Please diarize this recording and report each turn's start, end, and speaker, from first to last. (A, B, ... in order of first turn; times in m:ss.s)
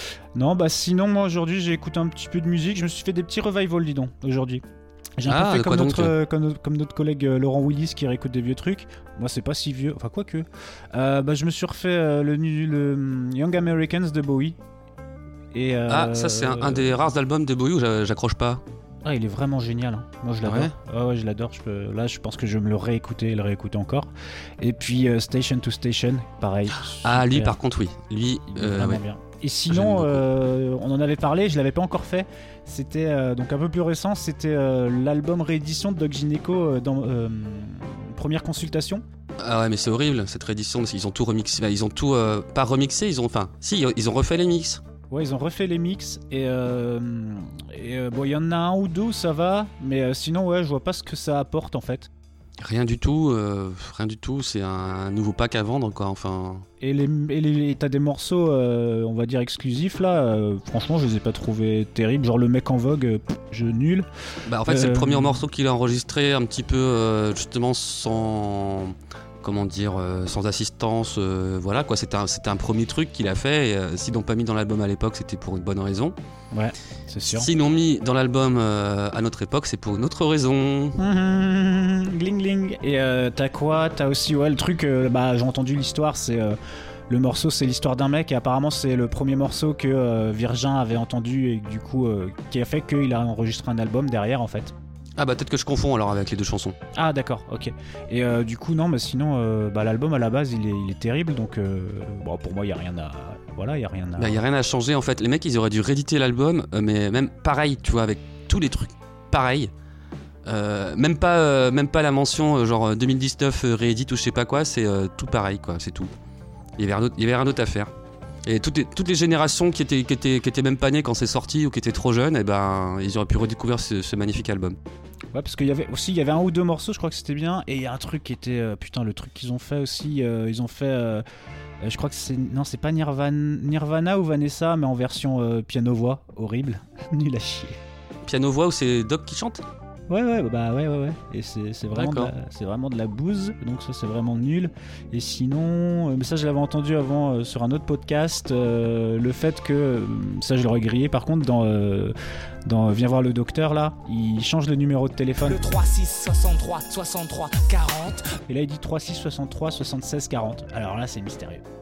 0:00.4-0:04.6 A
0:05.2-0:14.6 A
0:05.3-0:06.1 B
0:15.5-0:17.0 A
0:15.9-0:18.6 B
0:19.0-0:24.1 A
0:20.4-0:20.7 B
0:24.6-0:27.6 A
0:26.9-0:29.0 B
0:28.5-0:39.0 A
0:29.7-0:30.2 B
0:39.4-0:44.8 B
0:45.1-0:52.1 A
0:52.6-0:56.6 B
0:56.8-1:04.1 A
1:04.5-1:16.1 B
1:04.6-1:05.4 A
1:16.5-1:17.5 A
1:17.3-1:21.0 B
1:21.0-1:26.6 A
1:27.1-1:34.7 A
1:35.2-1:36.8 B
1:37.0-1:44.4 A
1:44.2-1:49.7 B
1:50.4-1:56.1 B
1:56.8-1:57.9 B
1:58.4-2:04.8 B
2:05.3-2:11.2 A
2:11.8-2:17.8 A
2:18.2-2:19.6 B
2:20.1-2:32.1 A
2:21.9-2:22.3 B
2:32.7-2:35.7 A
2:35.4-2:38.4 C
2:38.4-2:41.6 A